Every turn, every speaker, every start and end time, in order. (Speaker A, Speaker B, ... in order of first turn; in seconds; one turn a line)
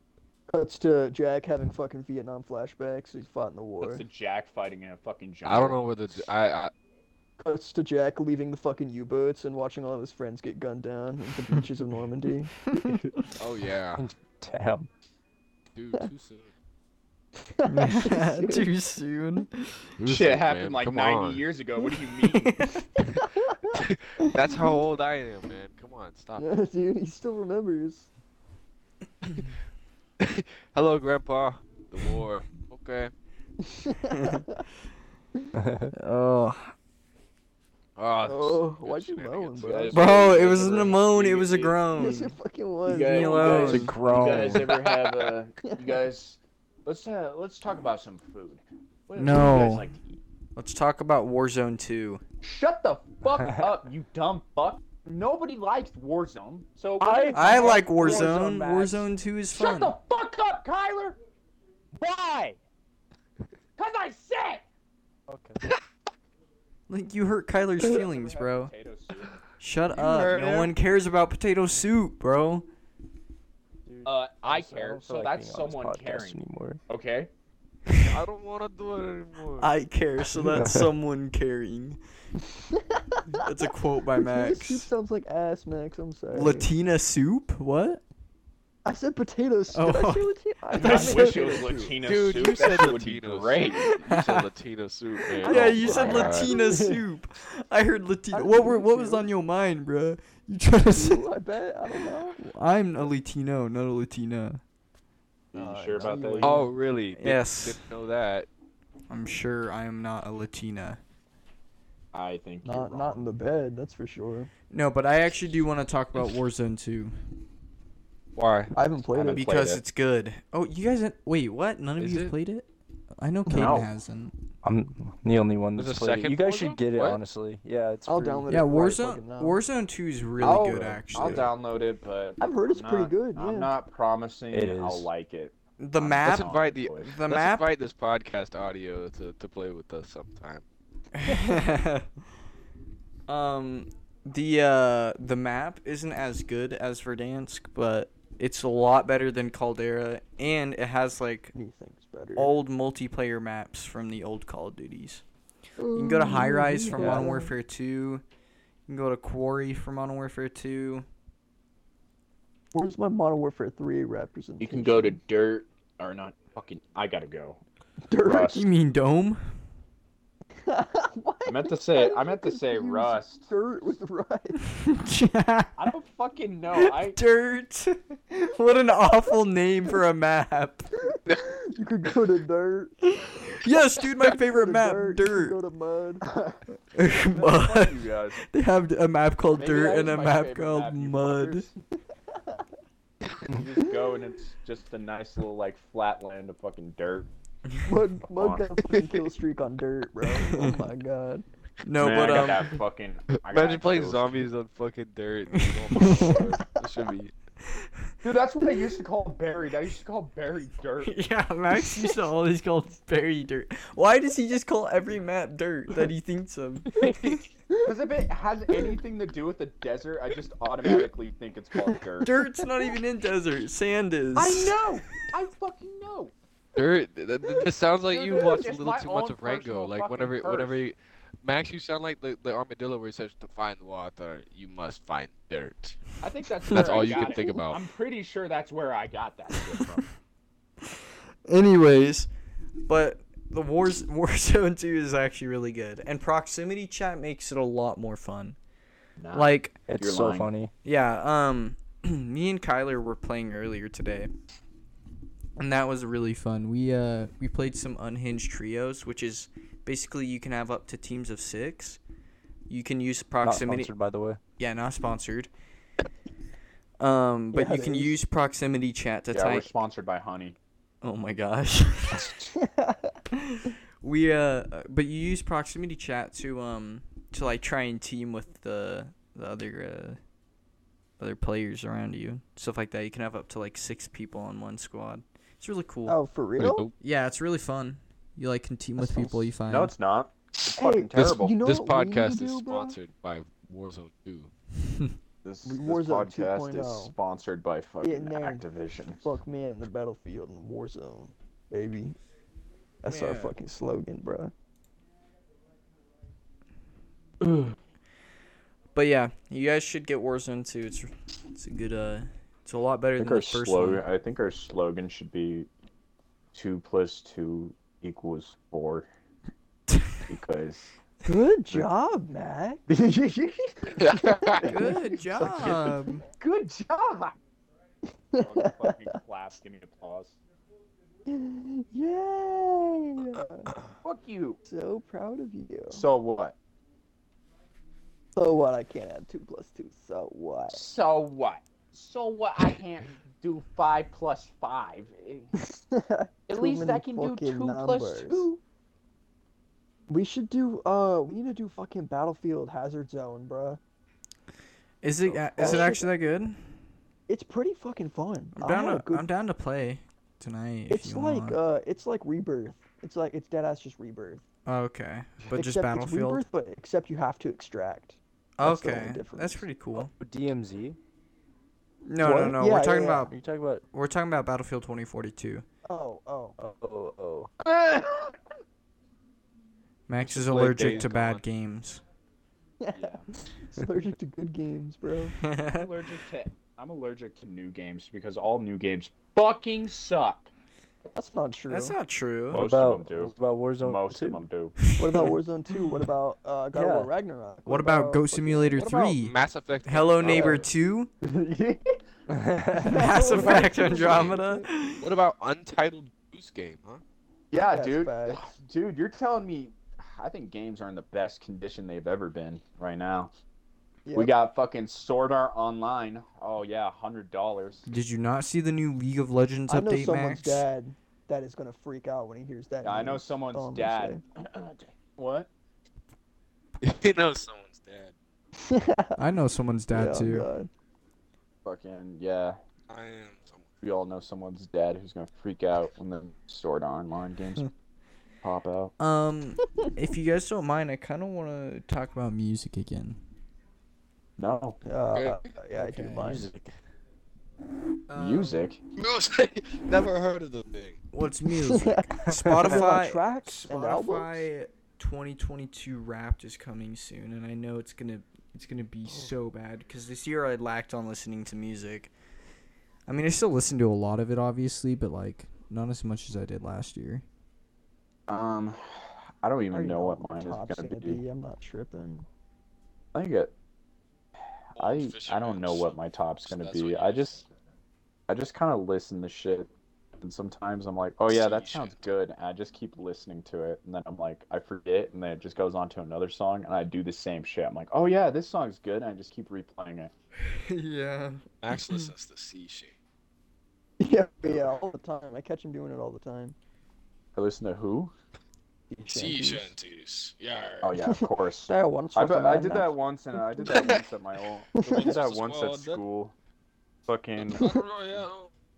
Speaker A: 0.5-4.0
Speaker B: 3.8-5.8
Speaker C: 5.4-6.7
Speaker A: 7.4-12.7
Speaker C: 13.4-14.1
Speaker D: 14.0-14.9
Speaker C: 15.8-16.5
Speaker A: 17.6-18.7
Speaker E: 17.7-19.8
Speaker C: 20.0-21.4
Speaker B: 20.1-22.7
Speaker E: 22.3-23.0
Speaker A: 23.1-23.8
Speaker C: 23.7-26.5
Speaker A: 26.4-28.1
Speaker C: 30.2-33.1
Speaker A: 33.6-34.6
Speaker E: 34.1-34.4
Speaker D: 35.6-35.9
Speaker E: 35.9-36.7
Speaker C: 38.0-39.9
Speaker A: 38.3-40.1
Speaker B: 39.6-41.8
Speaker E: 39.9-42.4
Speaker A: 42.0-43.9
Speaker B: 42.9-50.1
Speaker E: 43.0-44.0
Speaker D: 43.5-44.8
Speaker E: 49.2-49.9
Speaker E: 50.6-52.2
Speaker B: 52.4-61.2
Speaker D: 57.0-58.4
Speaker E: 57.3-60.0
Speaker B: 62.0-62.6
Speaker B: 63.8-64.7
Speaker D: 65.3-65.6
Speaker E: 66.9-68.7
Speaker B: 67.8-69.3
Speaker E: 69.6-72.7
Speaker B: 69.9-70.7
Speaker A: 70.0-70.5
Speaker D: 73.9-76.8
Speaker B: 74.0-77.3
Speaker E: 77.9-78.2
Speaker C: 78.0-79.8
Speaker E: 79.6-82.0
Speaker D: 80.3-80.9
Speaker A: 82.7-83.4
Speaker E: 83.3-84.9
Speaker A: 84.1-86.7
Speaker E: 86.3-88.0
Speaker A: 88.8-92.0
Speaker E: 89.7-91.5
Speaker B: 90.7-94.0
Speaker C: 92.0-96.6
Speaker E: 93.9-94.5
Speaker E: 95.4-101.2
Speaker A: 95.4-97.0
Speaker B: 95.9-96.2
Speaker A: 98.3-99.3
Speaker A: 100.9-102.5
Speaker E: 102.4-104.6
Speaker B: 105.5-106.6
Speaker A: 105.5-106.7
Speaker C: 106.4-108.5
Speaker E: 107.2-107.8
Speaker E: 109.1-111.0
Speaker B: 112.1-113.3
Speaker A: 112.6-114.5
Speaker E: 114.7-117.2
Speaker C: 118.4-118.8
Speaker A: 118.8-119.5
Speaker B: 119.2-119.8
Speaker E: 119.3-122.7
Speaker C: 122.0-122.3
Speaker E: 123.2-124.3
Speaker A: 123.5-123.8
Speaker B: 123.5-123.9
Speaker D: 124.6-128.5
Speaker C: 125.8-127.2
Speaker A: 128.1-129.6
Speaker E: 128.5-131.5
Speaker B: 130.4-137.2
Speaker D: 130.4-131.4
Speaker A: 132.4-133.7
Speaker D: 134.5-135.1
Speaker E: 135.8-137.7
Speaker C: 136.2-140.6
Speaker E: 141.2-142.1
Speaker E: 143.3-151.5
Speaker A: 151.5-152.5
Speaker E: 152.4-155.2
Speaker A: 155.8-157.5
Speaker E: 155.9-158.2
Speaker D: 157.0-157.2
Speaker E: 158.9-161.1
Speaker A: 162.7-165.2
Speaker B: 164.6-167.6
Speaker A: 168.1-168.6
Speaker B: 168.2-168.7
Speaker E: 168.5-169.4
Speaker A: 170.6-174.6
Speaker B: 171.5-173.5
Speaker E: 174.8-175.8
Speaker B: 175.8-177.2
Speaker E: 176.8-180.9
Speaker A: 181.0-183.1
Speaker E: 183.2-185.6
Speaker A: 184.1-186.3
Speaker E: 186.9-191.7
Speaker B: 187.1-188.4
Speaker B: 189.5-191.7
Speaker B: 193.5-197.3
Speaker A: 197.9-201.4
Speaker B: 198.3-198.7
Speaker E: 200.3-200.8
Speaker E: 201.8-202.8
Speaker B: 202.0-204.4
Speaker C: 203.5-207.3
Speaker E: 205.7-206.4
Speaker B: 208.2-211.2
Speaker E: 211.0-217.4
Speaker C: 217.0-217.4
Speaker B: 217.8-222.3
Speaker E: 222.2-224.8
Speaker B: 224.3-226.3
Speaker C: 226.8-236.0
Speaker B: 228.1-230.8
Speaker B: 236.2-240.1
Speaker C: 236.7-237.8
Speaker E: 236.7-237.1
Speaker E: 241.5-242.3
Speaker E: 242.9-248.6
Speaker B: 249.2-250.5
Speaker E: 249.3-249.8
Speaker D: 249.9-250.7
Speaker E: 250.8-254.3
Speaker E: 255.6-262.0
Speaker E: 262.7-263.9
Speaker D: 263.4-264.4
Speaker E: 264.6-265.5
Speaker E: 267.0-269.7
Speaker A: 267.5-268.2
Speaker B: 269.3-270.6
Speaker E: 271.0-272.5
Speaker A: 272.6-273.2
Speaker E: 273.3-280.2
Speaker E: 281.2-286.2
Speaker A: 286.1-286.9
Speaker C: 286.6-286.9
Speaker E: 287.0-289.9
Speaker A: 289.0-289.4
Speaker B: 289.6-291.6
Speaker A: 290.8-293.0
Speaker C: 291.2-294.5
Speaker B: 295.4-299.2
Speaker A: 295.6-297.1
Speaker A: 298.0-298.6
Speaker A: 299.2-302.2
Speaker A: 303.0-304.5
Speaker E: 303.1-303.5
Speaker E: 308.9-314.0
Speaker B: 313.2-315.7
Speaker B: 316.5-319.1
Speaker B: 320.3-320.9
Speaker A: 321.2-326.1
Speaker C: 323.9-324.7
Speaker E: 324.6-326.3
Speaker B: 325.5-327.4
Speaker A: 328.3-329.1
Speaker B: 328.4-330.4
Speaker A: 331.3-333.7
Speaker B: 334.0-334.6
Speaker A: 334.7-336.0
Speaker B: 335.9-336.6
Speaker A: 338.4-340.8
Speaker B: 340.7-345.5
Speaker A: 345.6-348.5
Speaker B: 346.5-348.6
Speaker A: 350.1-353.8
Speaker E: 355.0-356.6
Speaker B: 355.6-355.9
Speaker A: 355.6-356.1
Speaker A: 357.3-359.3
Speaker E: 358.6-361.6
Speaker A: 360.9-364.4
Speaker E: 364.7-366.4
Speaker A: 365.5-369.6
Speaker E: 368.6-370.1
Speaker D: 370.0-371.0
Speaker E: 372.1-373.3
Speaker A: 372.2-373.3
Speaker D: 373.3-373.8
Speaker E: 373.9-375.6
Speaker A: 375.9-376.6
Speaker D: 376.6-377.5
Speaker B: 377.6-378.4
Speaker E: 380.1-382.0
Speaker C: 380.2-381.4
Speaker A: 382.8-383.2
Speaker A: 383.7-385.4
Speaker E: 385.4-385.9
Speaker B: 385.7-390.5
Speaker A: 391.1-392.0
Speaker E: 391.7-392.7
Speaker D: 392.5-394.4
Speaker B: 392.5-394.8
Speaker E: 394.9-396.0
Speaker A: 394.9-398.9
Speaker D: 396.7-397.1
Speaker E: 397.7-401.1
Speaker B: 398.8-399.2
Speaker C: 399.1-400.7
Speaker A: 400.3-400.6
Speaker B: 400.3-400.6
Speaker B: 401.2-401.8
Speaker D: 402.3-403.1
Speaker A: 402.8-404.7
Speaker E: 402.8-405.1
Speaker C: 403.5-404.4
Speaker C: 405.0-407.0
Speaker B: 407.5-413.3
Speaker A: 407.6-408.4
Speaker A: 414.1-414.3
Speaker B: 414.1-417.9
Speaker E: 417.9-420.6
Speaker A: 419.7-424.2
Speaker B: 422.8-425.5
Speaker C: 426.8-428.1
Speaker A: 428.6-429.2
Speaker E: 429.2-430.5
Speaker A: 429.9-430.7
Speaker B: 431.6-432.6
Speaker C: 432.9-433.7
Speaker B: 433.8-437.7
Speaker B: 438.4-438.9
Speaker E: 439.0-443.2
Speaker B: 444.4-444.8
Speaker A: 444.9-446.5
Speaker C: 445.1-445.4
Speaker E: 445.8-446.2
Speaker D: 446.1-446.7
Speaker E: 448.1-448.6
Speaker B: 448.1-448.8
Speaker C: 449.0-451.0
Speaker E: 451.1-462.1
Speaker A: 451.5-454.5
Speaker D: 452.2-452.7
Speaker E: 463.1-467.2
Speaker B: 468.3-471.2
Speaker A: 469.7-472.2
Speaker B: 473.1-473.5
Speaker C: 474.8-477.4
Speaker B: 474.8-477.4
Speaker B: 478.3-490.1
Speaker C: 481.3-482.1
Speaker E: 490.4-492.1
Speaker C: 491.6-492.9
Speaker A: 494.0-496.6
Speaker B: 497.4-498.1
Speaker A: 498.9-499.7
Speaker C: 499.1-501.0
Speaker B: 500.8-506.3
Speaker A: 501.0-502.9
Speaker C: 503.7-504.0
Speaker A: 504.8-505.1
Speaker C: 504.9-506.0
Speaker B: 507.1-507.7
Speaker C: 507.4-508.5